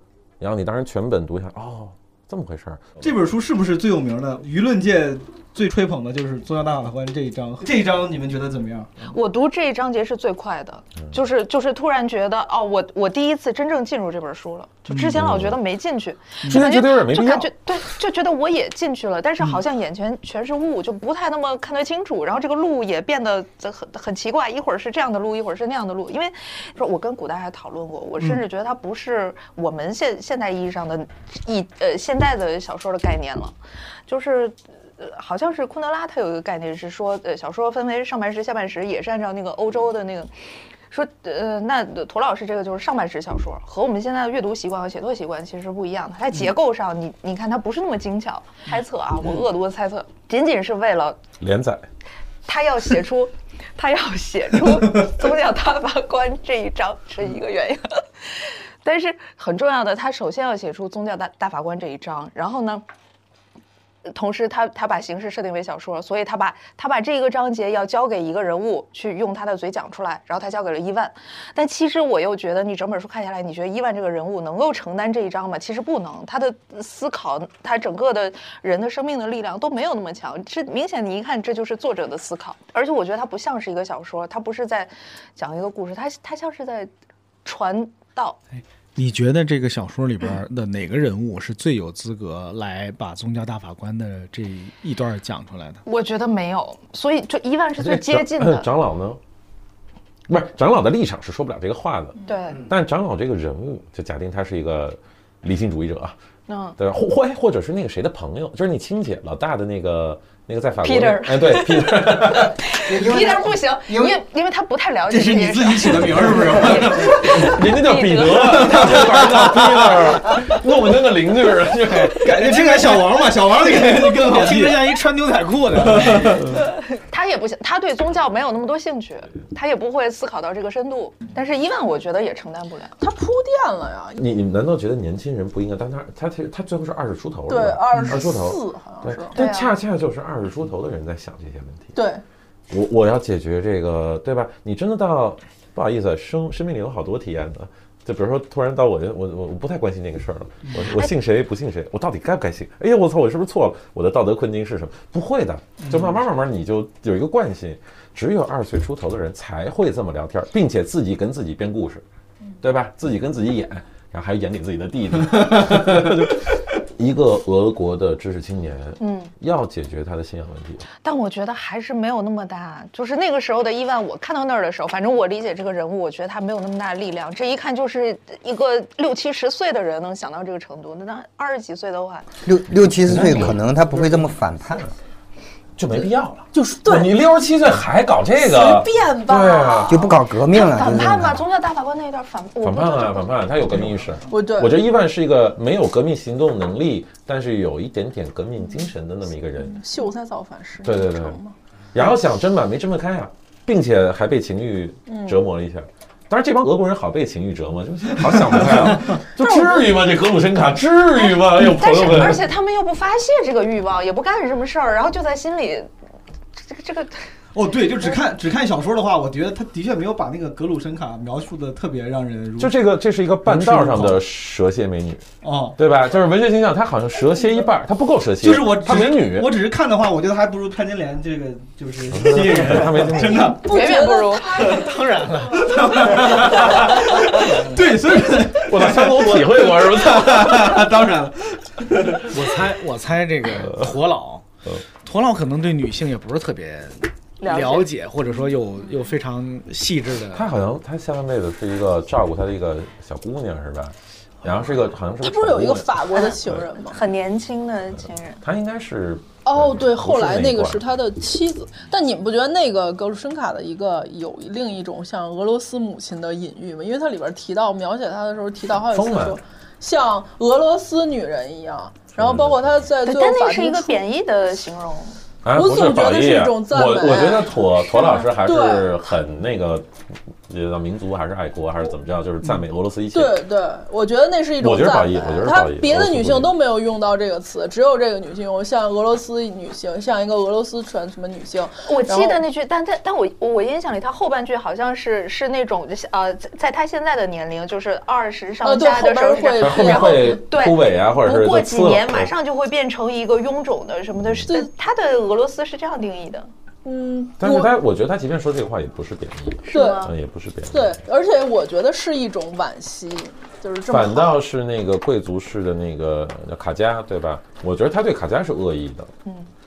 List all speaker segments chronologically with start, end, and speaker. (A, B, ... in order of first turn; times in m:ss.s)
0:00.4-0:02.9 A
0:03.0-0:08.9 B
0:09.0-0:33.6 C
0:14.9-0:15.1 B
0:15.1-0:15.6 A
0:16.5-0:17.5 A
0:34.1-0:40.3 C
0:40.9-0:51.2 C
0:51.4-0:51.8 A
0:52.4-1:02.8 C
1:04.1-1:26.9 C
1:27.4-1:28.4 C
1:29.0-1:35.8 D
1:35.8-1:38.7 C
1:37.8-1:39.2 A
1:40.3-1:46.2 A
1:42.2-1:42.6 C
1:46.5-1:46.7 C
1:46.8-1:52.6 A
1:50.8-1:59.9 C
1:52.9-1:54.2 E
1:55.1-1:57.5 B
1:57.1-2:02.3 A
1:58.7-2:00.0 B
2:02.2-2:04.9 B
2:02.3-2:06.6 D
2:05.8-2:06.5 B
2:07.1-2:12.9 C
2:13.0-2:14.2 F
2:14.2-2:21.9 A
2:17.5-2:19.4 F
2:19.3-2:19.7 C
2:21.9-2:22.2 F
2:22.7-2:42.0 A
2:30.8-2:31.1 C
2:35.8-2:36.1 B
2:42.6-2:50.8 A
2:49.0-2:49.3 C
2:51.0-3:02.3 C
3:02.4-3:04.9 E
3:03.1-3:03.6 A
3:05.8-3:10.1 A
3:06.5-3:07.2 F
3:08.4-3:09.9 F
3:09.9-3:11.3 E
3:10.5-3:13.4 C
3:12.6-3:19.8 A
3:14.3-3:14.8 F
3:19.6-3:21.5 F
3:20.8-3:21.4 A
3:21.9-3:32.5 A
3:25.1-3:25.4 F
3:29.4-3:29.9 F
3:31.2-3:35.9 C
3:36.6-3:37.3 C
3:37.5-3:42.7 B
3:42.6-3:45.2 A
3:43.4-3:44.2 B
3:45.4-3:45.8 B
3:45.8-3:49.6 A
3:48.4-3:53.6 B
3:52.1-3:53.6 A
3:53.6-3:54.7 C
3:53.6-3:54.8 F
3:54.7-3:56.5 D
3:55.6-4:02.3 B
3:58.5-4:00.9 A
4:02.3-4:04.4 D
4:05.0-4:10.5 D
4:07.4-4:07.9 C
4:10.3-4:16.6 A
4:15.2-4:17.0 F
4:16.9-4:18.4 C
4:18.4-4:20.8 A
4:19.4-4:34.0 F
4:28.9-4:29.4 A
4:32.2-4:32.6 A
4:33.0-4:35.2 C
4:35.4-4:39.9 A
4:35.5-4:38.9 F
4:40.5-4:43.4 A
4:43.1-4:52.4 F
4:44.6-4:46.5 A
4:51.8-5:06.5 C
4:58.6-5:00.4 F
4:59.6-5:02.3 A
5:06.8-5:07.7 F
5:07.4-5:11.0 A
5:09.6-5:10.1 C
5:09.7-5:10.1 F
5:10.7-5:14.4 F
5:13.9-5:19.1 A
5:19.2-5:19.5 C